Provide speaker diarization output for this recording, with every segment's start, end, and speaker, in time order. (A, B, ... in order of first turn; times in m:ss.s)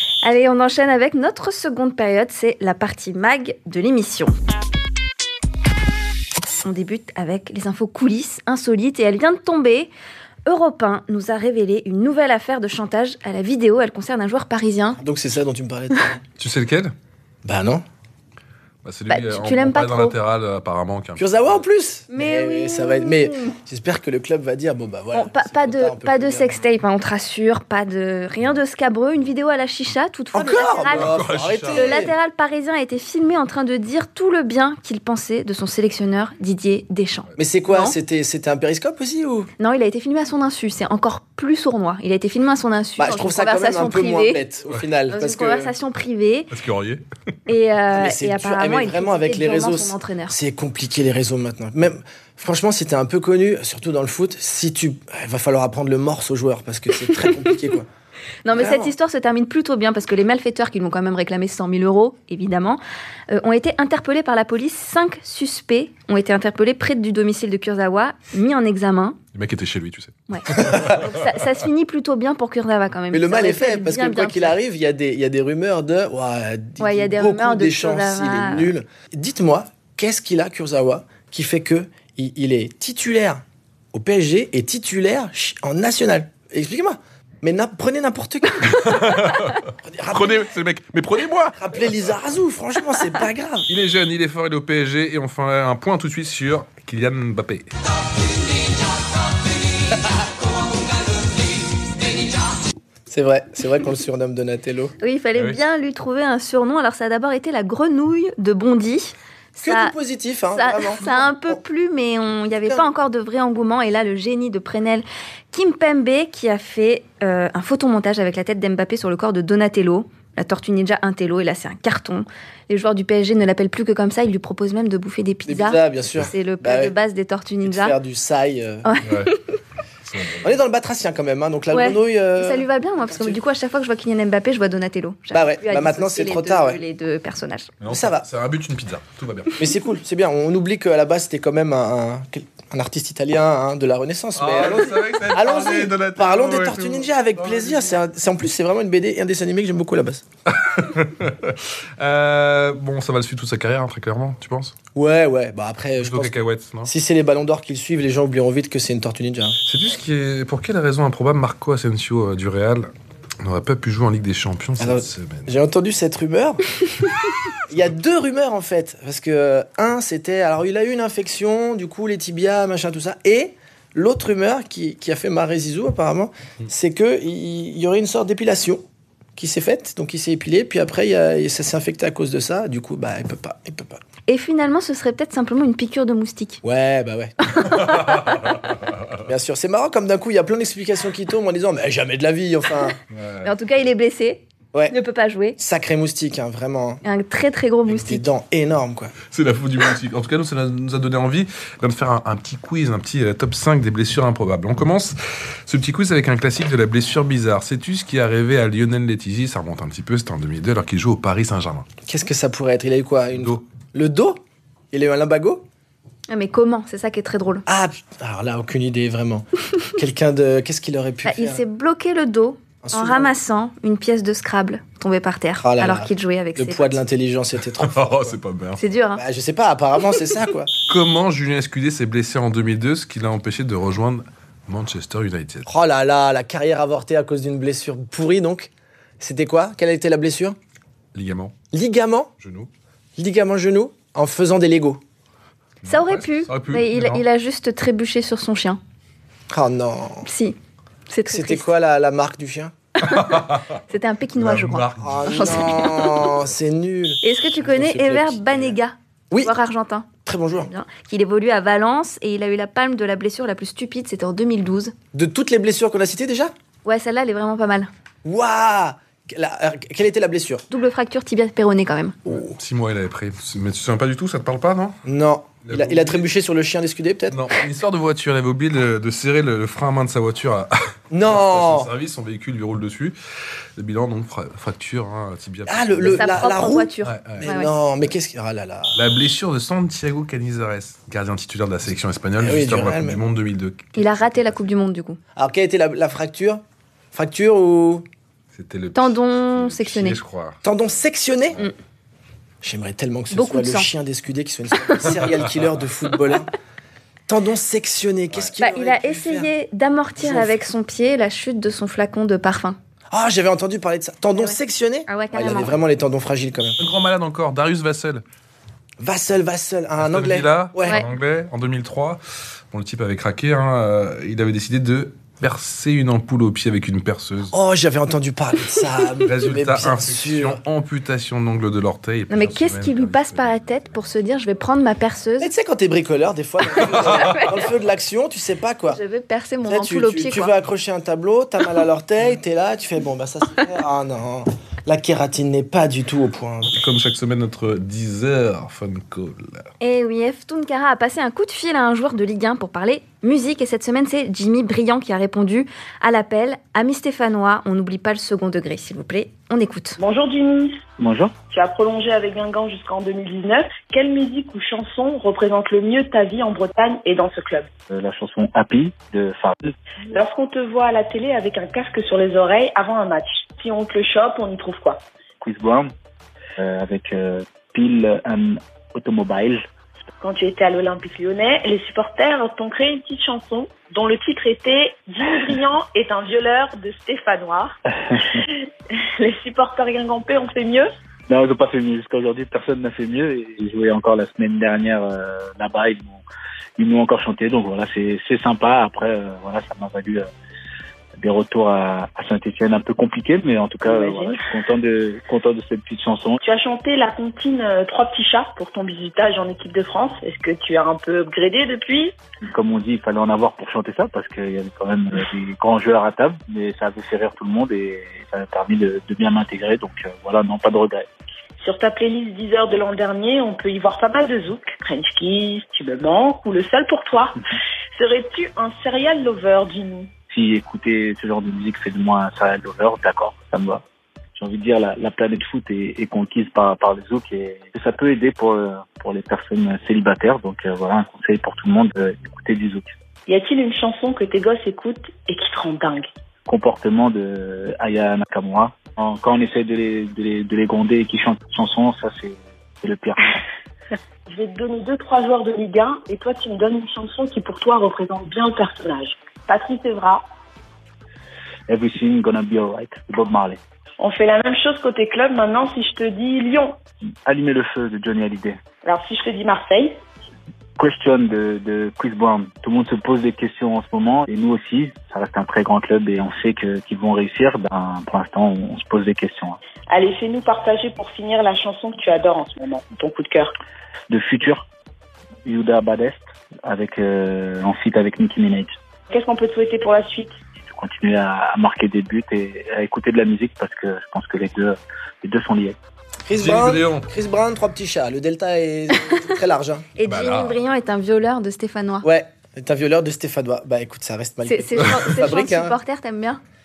0:00.2-0:04.4 A
0:06.5-0:09.9 A
0:10.4-0:15.0 A
0:15.0-0:16.2 B
0:16.4-0:16.9 C
0:17.4-0:17.8 B
0:18.8-0:21.6 C
0:19.1-0:20.1 A
0:21.2-0:26.6 B
0:22.1-0:23.6 A
0:25.1-0:31.2 A
0:30.3-0:32.1 B
0:30.8-0:31.9 C
0:31.7-0:38.0 A
0:37.4-0:39.5 B
0:39.6-0:44.4 A
0:43.0-0:45.7 B
0:45.1-0:46.5 A
0:46.5-0:47.0 C
0:47.5-0:50.4 A
0:47.9-0:57.9 B
0:58.4-1:09.2 A
0:58.5-0:58.9 B
1:09.3-1:11.0 C
1:10.3-1:14.6 A
1:13.1-1:29.1 B
1:16.8-1:18.7 A
1:28.6-1:31.8 C
1:29.8-1:30.5 B
1:31.5-1:33.7 B
1:33.7-1:37.7 C
1:43.1-1:44.9 B
1:45.0-1:49.9 A
1:49.6-1:51.6 B
1:50.5-2:08.0 A
2:05.4-2:06.9 B
2:07.6-2:09.0 B
2:08.8-2:09.4 A
2:09.0-2:09.3 C
2:10.1-2:10.5 C
2:10.4-2:13.4 B
2:11.7-2:17.7 A
2:15.3-2:16.8 B
2:17.8-2:19.6 C
2:17.9-2:18.3 B
2:19.6-2:30.2 B
2:24.4-2:27.9 C
2:30.5-2:34.7 C
2:34.9-2:39.6 B
2:36.0-2:36.9 C
2:39.6-2:42.9 C
2:43.4-2:45.5 C
2:44.8-2:46.7 B
2:47.7-2:58.8 B
2:59.4-3:04.0 B
3:04.3-3:06.6 A
3:06.6-3:08.0 B
3:07.7-3:08.6 C
3:09.2-3:13.0 B
3:13.1-3:13.5 C
3:13.4-3:15.6 A
3:15.6-3:17.0 B
3:17.0-3:18.3 A
3:17.9-3:19.1 B
3:19.3-3:31.8 C
3:32.1-3:35.6 B
3:33.3-3:33.6 C
3:36.3-3:37.6 A
3:37.6-3:41.6 B
3:41.2-3:47.0 A
3:42.8-3:43.3 B
3:45.6-3:48.4 B
3:47.8-3:48.8 C
3:48.8-3:49.2 A
3:49.1-3:50.7 B
3:50.9-3:55.7 C
3:55.6-4:00.6 B
4:01.1-4:01.6 C
4:01.7-4:02.3 B
4:02.4-4:02.7 C
4:03.2-4:05.0 B
4:05.8-4:07.2 C
4:05.8-4:08.8 A
4:09.5-4:10.3 B
4:10.2-4:10.6 A
4:11.1-4:11.7 A
4:11.3-4:12.7 B
4:13.0-4:16.3 A
4:13.0-4:13.7 C
4:14.4-4:15.8 C
4:15.0-4:18.8 B
4:17.2-4:20.1 A
4:20.2-4:20.7 B
4:20.6-4:24.9 A
4:25.1-4:26.5 B
4:26.8-4:27.9 A
4:28.2-4:30.6 B
4:30.7-4:32.2 A
4:32.2-4:32.6 B
4:32.6-4:35.0 C
4:35.0-4:37.5 B
4:35.6-4:36.3 C
4:37.3-4:43.2 C
4:41.1-4:41.9 B
4:43.8-4:46.4 C
4:45.7-4:49.0 B
4:46.0-4:47.7 A
4:47.0-4:47.4 C
4:48.9-4:54.6 C
4:52.4-4:53.2 B
4:54.0-4:55.2 A
4:55.4-4:56.6 B
4:57.1-4:58.0 B
4:58.5-5:00.6 C
4:58.9-5:00.2 A
5:00.6-5:01.6 B
5:02.6-5:06.5 B
5:03.3-5:03.9 A
5:07.3-5:09.5 B
5:08.6-5:12.8 A
5:10.2-5:10.6 B
5:13.1-5:16.8 B
5:15.1-5:15.8 A
5:16.8-5:18.2 C
5:19.0-5:21.0 B
5:20.0-5:22.2 C
5:22.7-5:27.5 C
5:27.5-5:30.6 B
5:29.2-5:33.9 C
5:32.3-5:35.5 A
5:35.4-5:39.0 B
5:36.8-5:37.5 A
5:37.1-5:37.5 C
5:38.9-5:40.5 A
5:39.6-5:46.8 B
5:46.7-5:49.7 C
5:49.8-6:00.0 A
6:00.0-6:00.8 D
6:01.0-6:01.3 E
6:01.5-6:07.7 D
6:07.9-6:09.7 E
6:10.1-6:15.0 D
6:15.4-6:15.9 E
6:16.6-6:19.6 E
6:20.2-6:27.8 D
6:28.5-6:30.9 D
6:31.3-6:36.2 E
6:36.8-6:40.3 E
6:41.2-6:46.4 E
6:43.8-6:44.4 D
6:46.4-6:52.1 D
6:52.5-7:01.1 E
7:01.6-7:07.4 D
7:07.9-7:10.1 D
7:10.3-7:13.8 E
7:14.4-7:22.9 E
7:23.3-7:26.1 D
7:26.5-7:33.2 E
7:34.3-7:40.2 D
7:41.7-7:43.6 E
7:44.0-7:46.8 D
7:47.2-7:48.6 E
7:48.8-7:50.0 D
7:50.8-7:59.6 E
7:59.9-8:03.5 D
8:04.1-8:04.6 E
8:05.4-8:08.7 E
8:09.1-8:10.4 D
8:10.6-8:15.8 E
8:16.2-8:19.9 B
8:16.3-8:17.1 C
8:20.0-8:22.1 A
8:20.0-8:20.6 C
8:22.0-8:25.8 B
8:24.4-8:26.4 A
8:24.8-8:25.1 C